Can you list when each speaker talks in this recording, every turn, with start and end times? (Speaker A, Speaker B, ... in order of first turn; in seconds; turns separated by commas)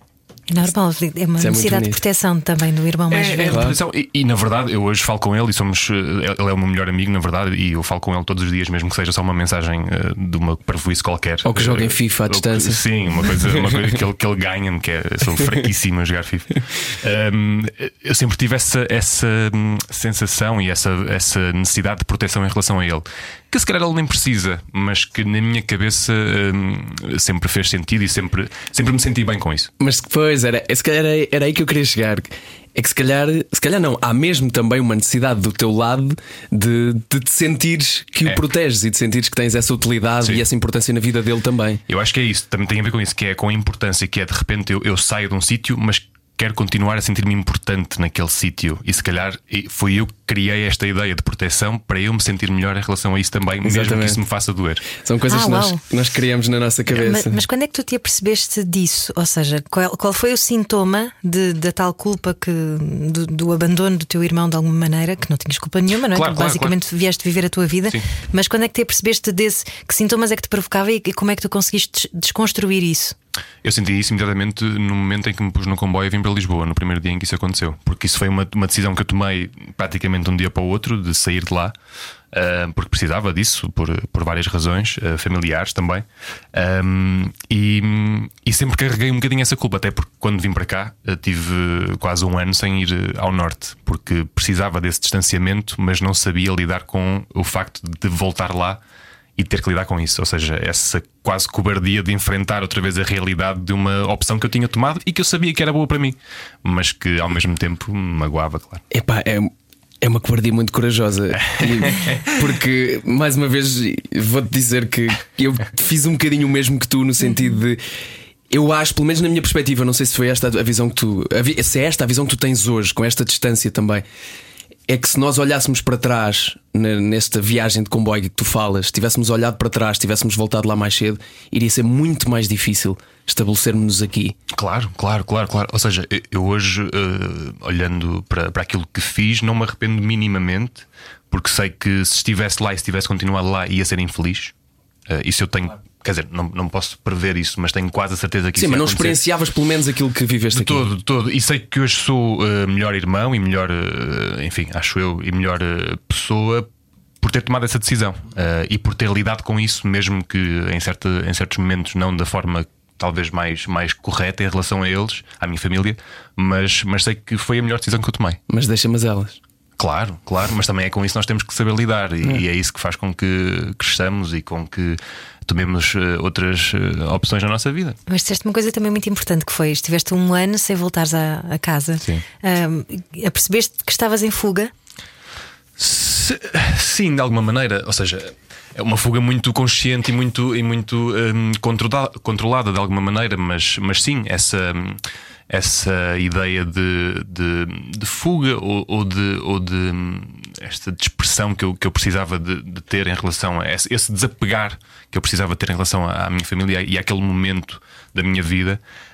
Speaker A: 0.5-3.7, Speaker B: 1.4-2.0, Speaker C: 3.1-29.7, Speaker B: 3.5-3.8, Speaker B: 11.4-13.9, Speaker B: 29.8-41.8, Speaker C: 41.9-54.9, Speaker B: 53.6-54.2, Speaker B: 55.0-57.4, Speaker A: 55.3-55.8, Speaker A: 56.9-73.2, Speaker C: 66.1-66.8, Speaker C: 73.6-81.8, Speaker C: 82.3-98.8, Speaker C: 99.4-108.8, Speaker B: 108.9-117.8, Speaker C: 111.4-112.4, Speaker B: 118.5-124.0, Speaker B: 124.9-134.4, Speaker C: 134.5-144.5, Speaker C: 145.1-149.2, Speaker B: 148.6-150.9, Speaker C: 150.5-156.7, Speaker C: 157.2-168.4, Speaker B: 168.5-169.4, Speaker C: 169.8-178.0, Speaker A: 178.1-184.7, Speaker C: 185.8-208.8